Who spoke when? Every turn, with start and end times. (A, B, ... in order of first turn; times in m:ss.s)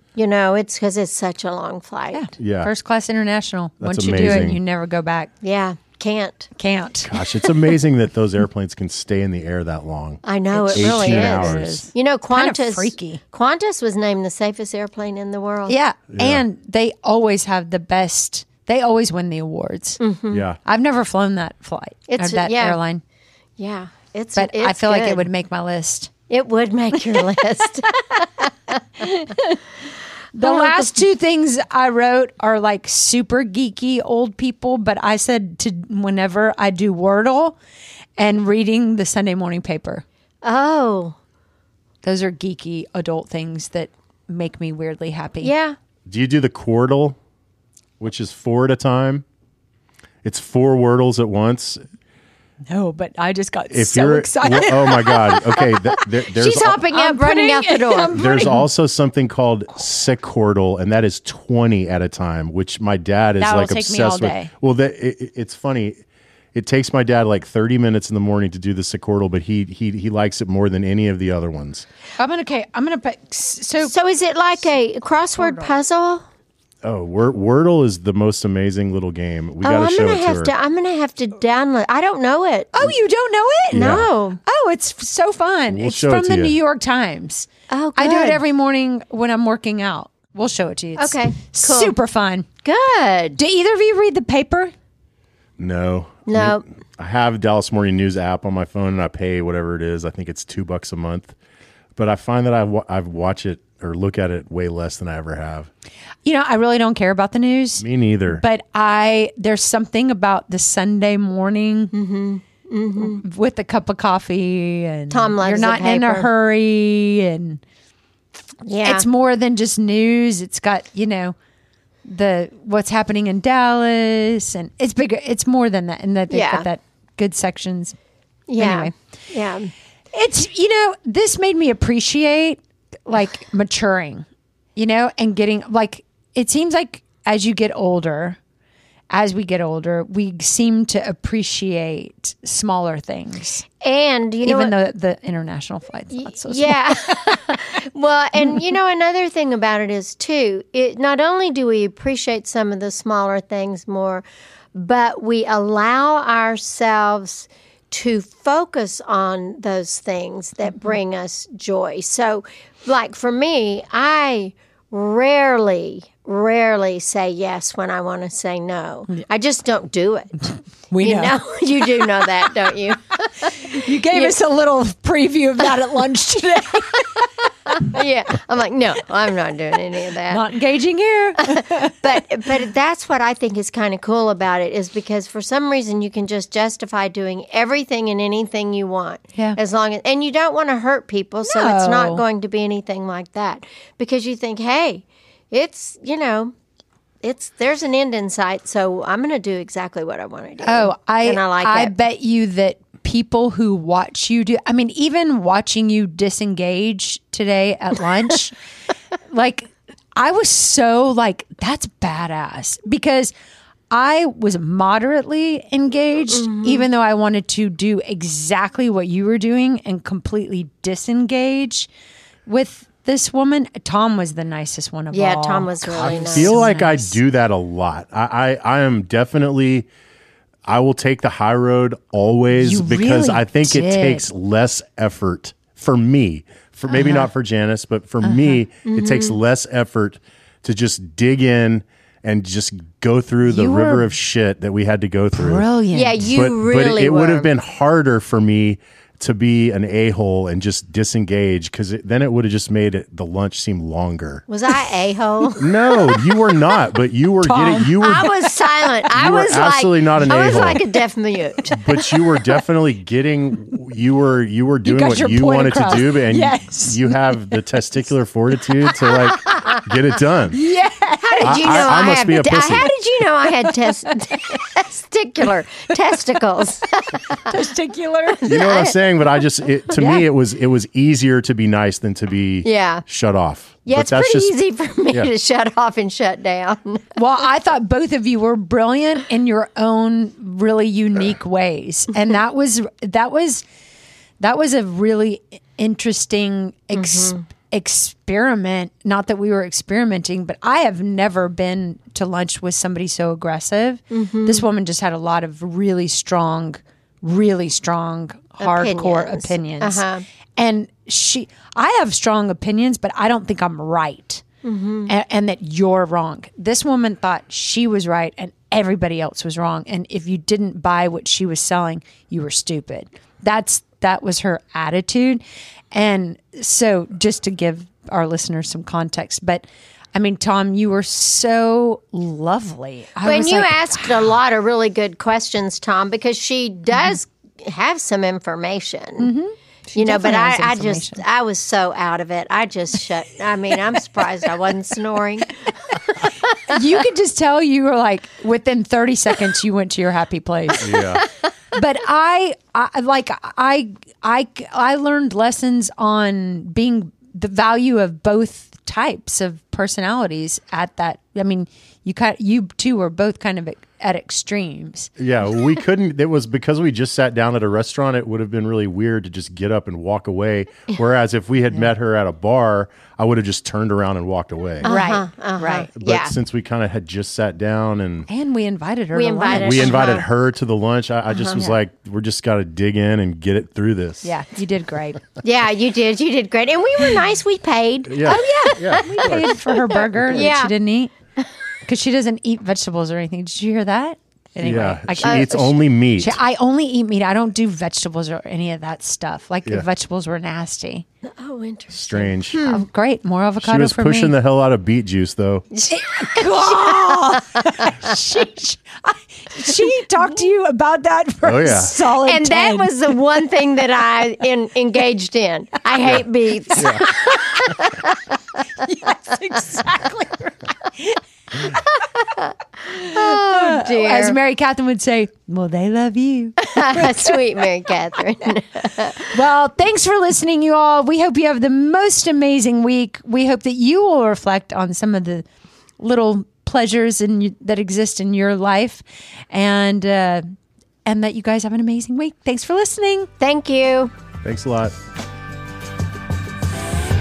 0:00.2-0:02.2 A
0:02.1-0:05.3 B
0:02.4-0:02.7 C
0:03.8-0:04.6 C
0:05.4-0:06.5 A
0:06.6-0:07.1 B
0:07.0-0:11.8 C
0:10.2-0:15.8 A
0:10.5-0:13.2 B
0:15.7-0:20.0 B
0:16.1-0:16.4 C
0:20.0-0:20.4 A
0:20.3-0:20.6 C
0:20.6-0:23.0 B
0:22.1-0:22.8 A
0:23.6-0:25.3 A
0:24.4-0:26.1 B
0:26.3-0:29.1 A
0:29.0-0:29.6 B
0:30.4-0:37.6 B
0:30.4-0:31.0 A
0:38.2-0:40.0 B
0:40.4-0:41.2 A
0:42.0-0:45.5 B
0:45.4-0:45.8 A
0:46.1-0:47.2 C
0:48.0-0:49.2 C
0:50.2-0:51.8 C
0:52.7-0:58.7 B
0:53.7-0:56.8 C
0:56.4-0:58.2 A
0:58.1-1:06.0 C
1:03.4-1:04.5 B
1:06.5-1:11.9 C
1:12.2-1:13.9 B
1:13.8-1:16.2 A
1:15.4-1:15.7 B
1:16.8-1:20.5 C
1:19.6-1:22.7 A
1:22.7-1:32.5 B
1:23.7-1:24.1 C
1:23.8-1:24.4 A
1:25.7-1:26.6 C
1:27.7-1:28.4 A
1:31.0-1:32.0 A
1:32.6-1:33.4 A
1:33.4-1:34.7 B
1:35.6-1:41.4 C
1:36.3-1:36.6 A
1:42.0-1:45.7 C
1:46.2-1:51.9 B
1:47.8-1:48.4 C
1:51.9-1:53.2 A
1:53.0-1:57.6 B
1:55.1-1:56.3 A
1:58.6-1:59.1 A
1:58.8-2:01.4 B
2:02.1-2:08.0 B
2:06.3-2:06.7 A
2:08.5-2:09.7 A
2:08.6-2:08.9 B
2:10.1-2:18.4 B
2:19.1-2:23.6 B
2:23.8-2:24.8 A
2:24.4-2:27.5 B
2:26.2-2:34.2 A
2:34.8-2:54.4 A
2:50.9-2:51.4 B
2:53.4-2:57.9 B
2:57.7-3:00.5 A
3:00.3-3:02.0 B
3:01.4-3:16.5 A
3:11.4-3:12.2 B
3:17.2-3:21.9 A
3:20.7-3:28.6 B
3:29.3-3:33.3 B
3:33.9-3:41.9 B
3:36.3-3:36.8 A
3:42.5-3:47.2 B
3:45.1-3:46.7 A
3:46.0-3:49.9 C
3:50.7-4:05.7 C
3:52.6-3:54.3 B
3:56.9-3:57.3 B
3:58.2-3:58.6 B
3:58.8-3:59.4 A
4:03.5-4:04.1 B
4:05.3-4:06.2 B
4:05.9-4:07.5 A
4:06.2-4:14.4 C
4:14.5-4:15.8 A
4:15.6-4:18.3 C
4:17.4-4:18.4 B
4:18.0-4:21.8 A
4:19.1-4:20.8 C
4:20.2-4:20.9 B
4:21.6-4:22.0 B
4:21.7-4:30.6 C
4:24.8-4:27.6 B
4:29.4-4:29.8 A
4:30.5-4:32.7 B
4:31.2-4:37.5 A
4:31.4-4:32.9 C
4:33.5-4:34.6 B
4:37.5-4:38.6 B
4:38.4-4:39.0 A
4:38.4-4:44.6 C
4:39.9-4:40.3 B
4:42.6-4:43.0 A
4:43.8-4:47.1 A
4:47.2-4:53.6 B
4:54.4-5:10.0 B
4:57.0-4:57.4 A
5:04.1-5:04.6 A
5:08.6-5:10.2 A
5:10.6-5:14.4 B
5:14.6-5:15.1 A
5:15.1-5:29.6 B
5:30.2-5:34.3 B
5:33.2-5:39.3 A
5:39.2-5:41.2 B
5:40.0-5:45.9 A
5:46.6-5:51.2 B
5:50.8-5:51.2 C
5:51.7-6:05.1 B
6:05.2-6:14.9 C
6:14.8-6:15.9 B
6:14.8-6:16.3 A
6:16.0-6:18.3 C
6:18.3-6:20.0 B
6:19.1-6:20.3 A
6:19.5-6:24.3 C
6:21.3-6:21.6 A
6:24.2-6:25.2 B
6:25.4-6:30.7 A
6:28.1-6:29.6 C
6:28.2-6:31.1 B
6:31.9-6:41.0 B
6:34.6-6:36.4 C
6:35.2-6:35.7 A
6:41.4-6:42.8 A
6:41.9-6:42.7 C
6:42.1-6:44.3 B
6:43.6-6:45.7 C
6:45.7-6:47.9 A
6:45.9-6:53.0 B
6:51.4-6:51.9 C
6:52.2-6:58.2 A
6:56.8-6:57.1 C
6:58.8-7:02.0 B
7:02.2-7:04.4 A
7:02.9-7:07.4 B
7:06.6-7:09.3 A
7:09.0-7:15.4 B
7:16.0-7:20.5 B
7:21.1-7:23.3 B
7:23.4-7:24.1 A
7:24.4-7:25.0 C